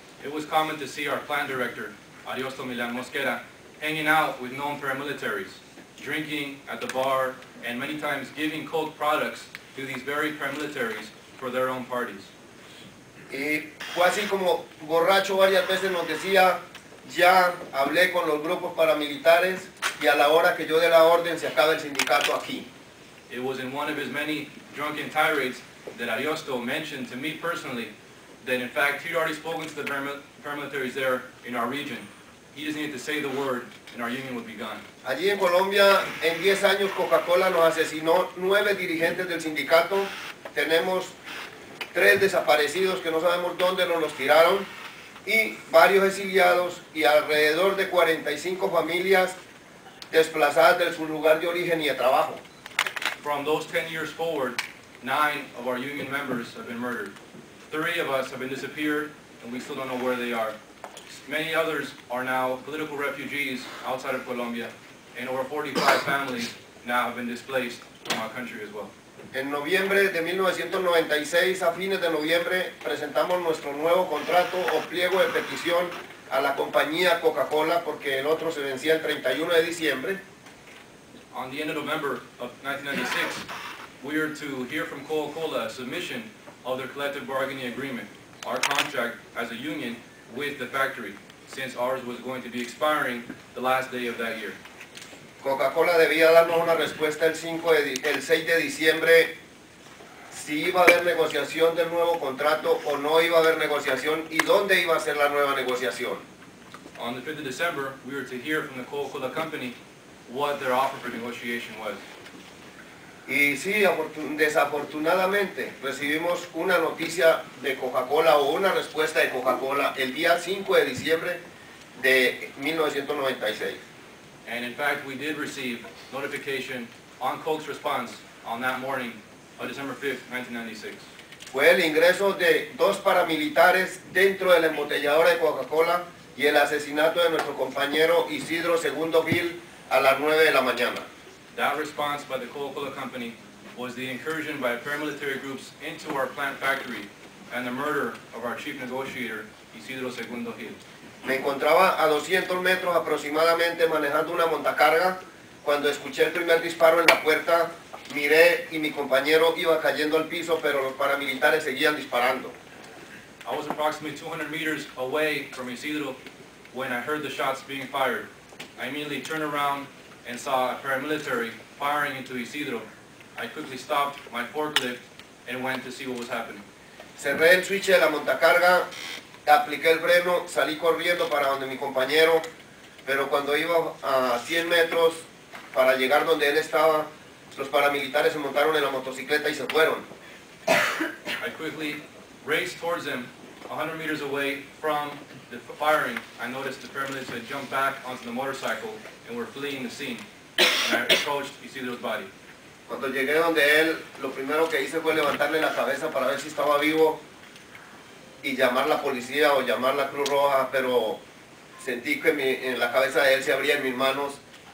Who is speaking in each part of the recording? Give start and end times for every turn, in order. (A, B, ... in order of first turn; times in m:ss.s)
0:00.2-0:12.3 A
0:13.3-0:22.7 B
0:23.3-0:27.9 A
0:28.4-0:34.8 A
0:35.0-0:41.1 B
0:41.9-0:44.7 B
0:45.2-0:49.4 B
0:50.1-0:52.4 B
0:53.2-0:57.1 A
0:57.7-1:00.6 A
1:01.1-1:08.9 A
1:09.3-1:20.2 B
1:21.3-1:23.5 A
1:24.0-1:34.6 A
1:35.4-1:39.3 B
1:40.3-1:46.2 B
1:47.0-1:49.8 A
1:50.3-1:52.0 A
1:53.2-2:01.4 B
2:02.0-2:03.8 B
2:04.4-2:11.1 A
2:11.5-2:21.0 B
2:21.5-2:30.8 A
2:31.2-2:42.5 B
2:43.4-2:46.2 A
2:46.7-2:56.6 A
2:57.2-2:58.8 B
2:59.4-3:02.4 B
3:03.0-3:10.0 B
3:11.4-3:20.2 A
3:20.8-3:22.3 A
3:22.9-3:27.2 B
3:28.4-3:31.2 B
3:31.8-3:34.4 B